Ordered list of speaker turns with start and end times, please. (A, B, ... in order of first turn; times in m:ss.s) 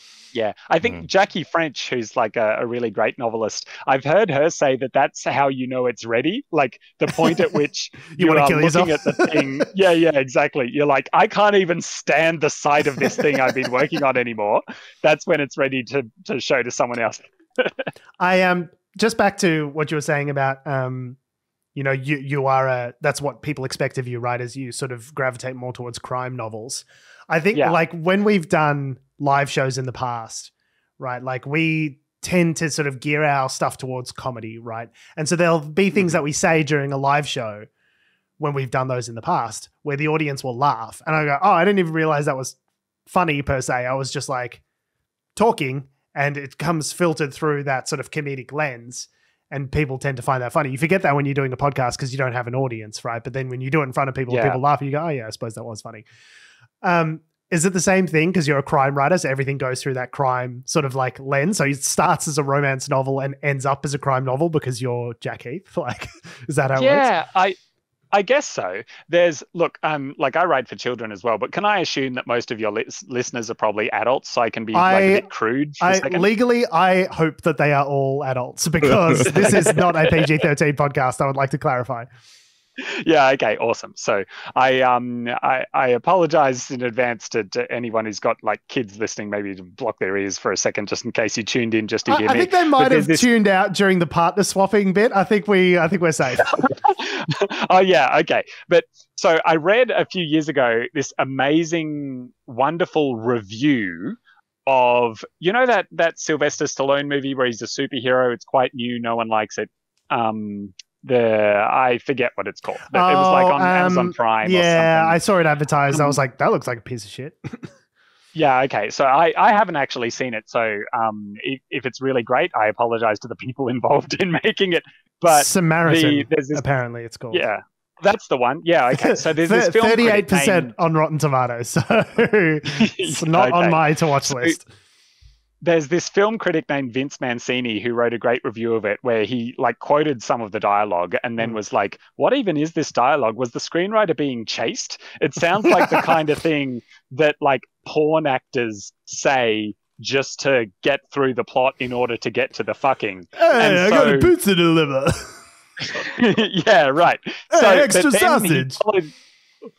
0:00.3-0:17.9 A
0:08.1-0:09.7 B
0:12.9-0:13.7 B
0:18.2-0:21.2 B
0:21.8-0:37.6 B
0:38.4-0:42.6 B
0:43.1-0:44.6 B
0:45.4-0:56.0 B
0:54.3-0:54.6 A
0:56.8-1:07.1 B
1:06.8-1:07.6 A
1:08.1-1:16.3 A
1:14.7-1:15.2 B
1:15.8-1:22.1 B
1:19.2-1:20.3 A
1:22.8-1:33.2 A
1:32.1-1:36.5 B
1:36.4-1:55.2 A
1:52.9-1:57.7 B
1:55.9-1:56.2 A
1:58.3-2:06.6 A
2:05.3-2:07.4 B
2:07.3-2:10.7 A
2:09.0-2:14.6 B
2:12.7-2:14.6 A
2:15.6-2:34.3 A
2:25.6-2:26.1 B
2:33.4-2:35.3 B
2:35.8-2:39.1 A
2:37.5-2:38.8 B